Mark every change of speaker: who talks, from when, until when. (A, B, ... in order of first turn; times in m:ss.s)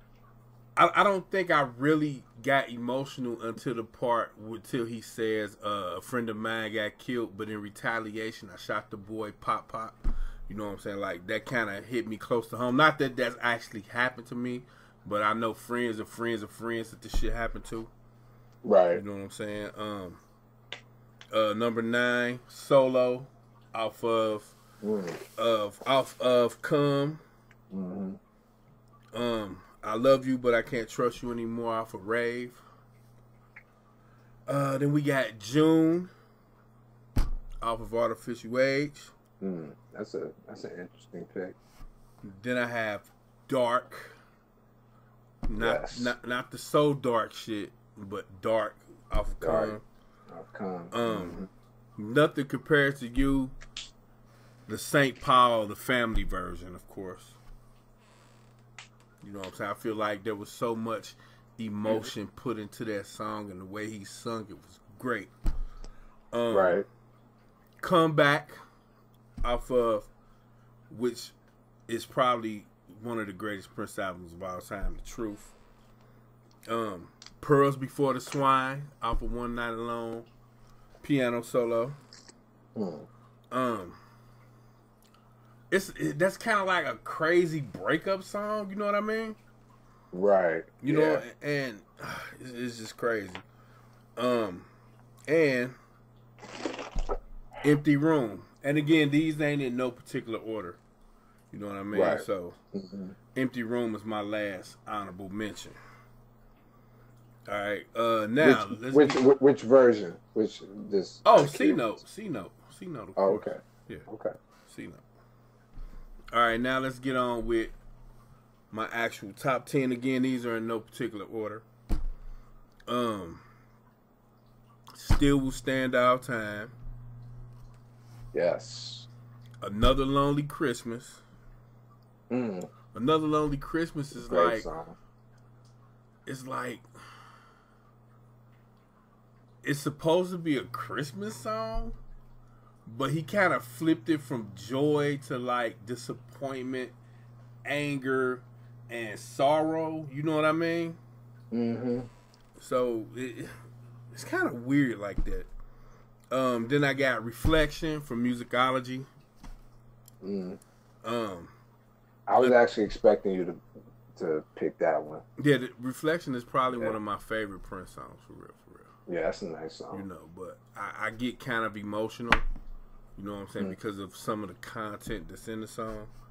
0:00.8-0:10.0 A
0:10.5-0:17.9 A
0:18.6-0:19.0 B
0:18.9-0:20.2 A
0:21.3-0:24.5 A
0:24.8-0:25.2 B
0:25.4-0:27.2 A
0:27.7-0:28.2 B
0:29.1-0:32.6 A
0:34.5-0:36.1 A
0:37.6-0:39.1 A
0:39.4-0:41.6 B
0:42.2-0:44.1 A
0:45.5-0:49.8 A
0:45.6-0:46.1 B
0:49.4-0:51.5 B
0:50.9-0:51.4 A
0:52.0-0:53.6 A
0:54.7-0:57.4 A
0:59.2-1:05.3 A
1:06.3-1:06.8 A
1:06.5-1:06.8 B
1:07.8-1:08.6 A
1:09.4-1:10.1 A
1:10.9-1:11.3 A
1:11.9-1:15.5 A
1:16.7-1:20.3 A
1:21.0-1:22.0 A
1:22.7-1:23.1 B
1:23.5-1:24.0 A
1:25.7-1:29.4 A
1:30.1-1:31.2 B
1:30.8-1:33.4 A
1:34.2-1:34.7 A
1:35.3-1:35.8 A
1:37.6-1:40.8 A
1:41.5-1:42.6 A
1:41.9-1:43.1 B
1:43.3-1:45.8 A
1:47.5-1:49.3 A
1:48.4-1:51.9 B
1:51.2-1:54.0 A
1:53.2-1:54.3 B
1:54.7-1:55.0 A
1:56.3-1:57.7 A
1:58.7-2:01.6 A
2:02.9-2:03.4 A
2:04.9-2:06.7 A
2:08.3-2:09.1 B
2:09.6-2:11.2 A
2:12.3-2:12.7 B
2:12.9-2:14.7 A
2:14.1-2:15.0 B
2:16.2-2:16.8 A
2:19.6-2:22.0 A
2:22.8-2:26.9 A
2:27.6-2:31.0 A
2:31.5-2:32.1 B
2:32.6-2:33.5 A
2:34.1-2:35.5 A
2:36.3-2:39.1 A
2:40.2-2:40.6 B
2:41.0-2:41.5 A
2:42.3-2:43.6 B
2:44.1-2:45.2 B
2:45.4-2:48.9 A
2:49.1-2:50.0 B
2:49.9-2:52.4 A
2:53.2-2:56.1 A